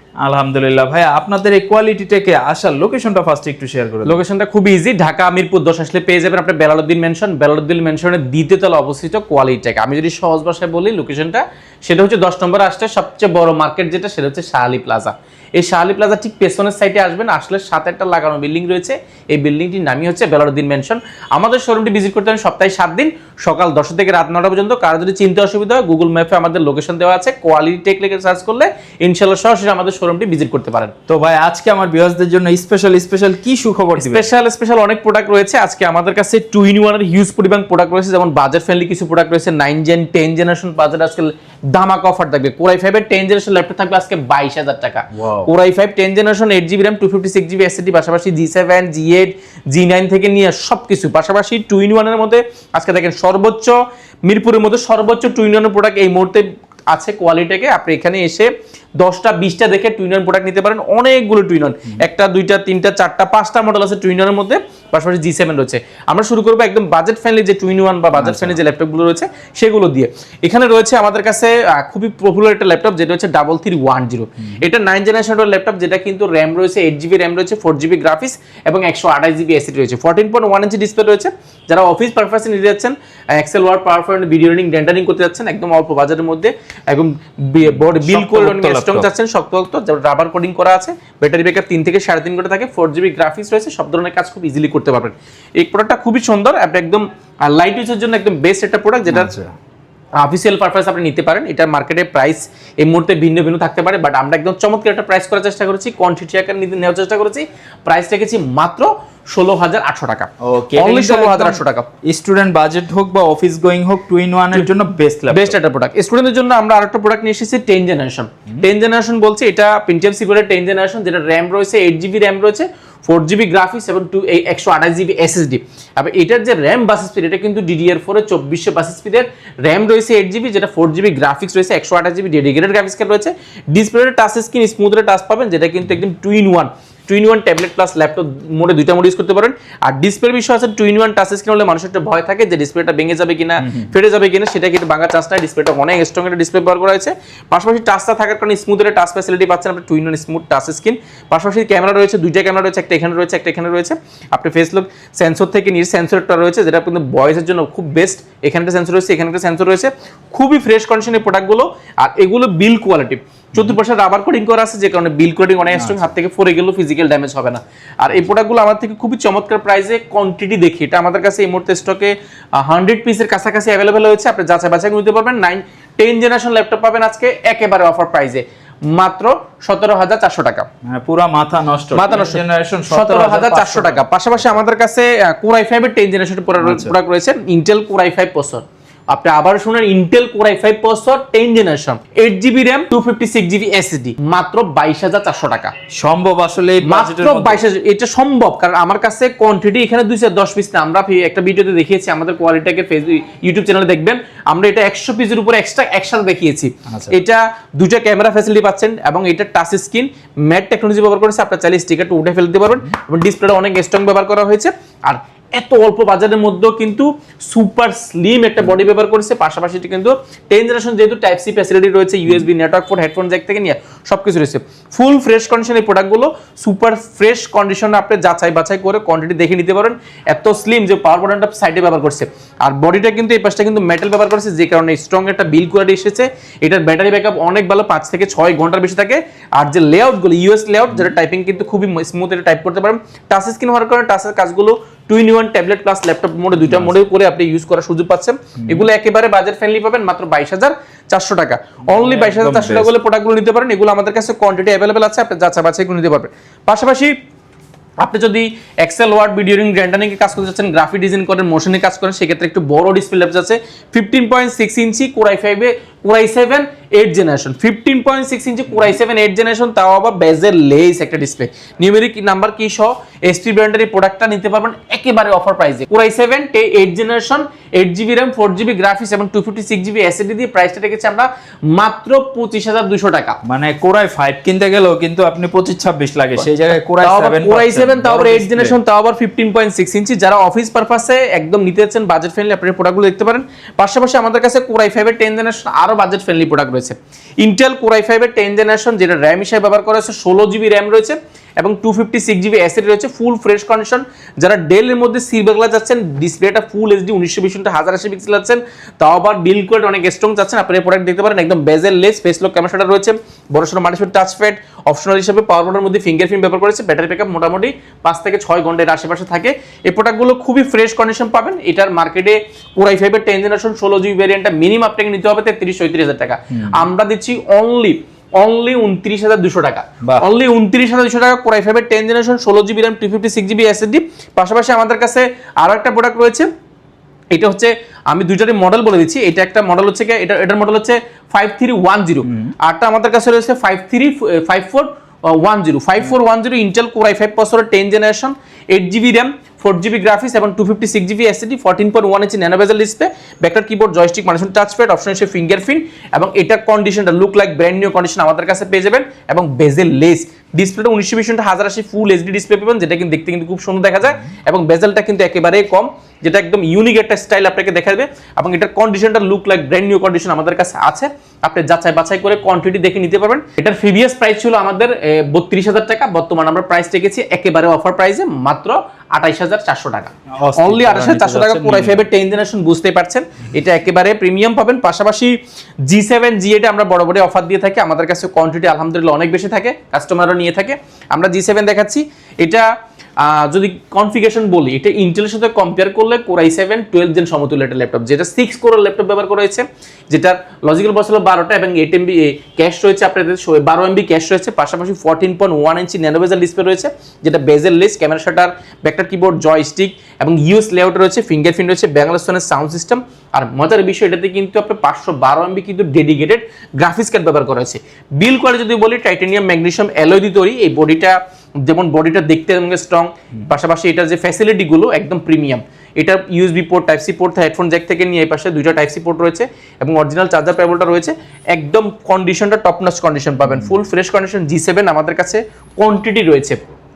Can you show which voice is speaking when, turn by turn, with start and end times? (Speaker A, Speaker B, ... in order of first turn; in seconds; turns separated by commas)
Speaker A: 0.2-4.2, Speaker B: 4.0-30.9, Speaker A: 31.1-34.3, Speaker B: 34.0-58.5, Speaker A: 45.1-45.5, Speaker B: 59.0-99.3, Speaker A: 68.2-68.6, Speaker A: 87.6-89.1, Speaker A: 99.1-99.5, Speaker B: 100.2-111.9, Speaker A: 110.4-115.5, Speaker B: 115.3-180.7, Speaker A: 143.6-143.9, Speaker A: 165.8-166.0, Speaker A: 180.8-184.5, Speaker B: 181.9-195.8, Speaker A: 186.6-186.9, Speaker A: 195.9-197.6, Speaker B: 196.8-257.1, Speaker A: 206.9-207.2, Speaker A: 246.6-247.0, Speaker A: 251.9-252.9, Speaker B: 258.0-283.4, Speaker A: 283.4-288.8, Speaker B: 287.0-336.5, Speaker A: 326.5-326.8, Speaker B: 337.3-436.7, Speaker A: 342.2-342.6, Speaker A: 380.4-382.1, Speaker A: 433.5-433.8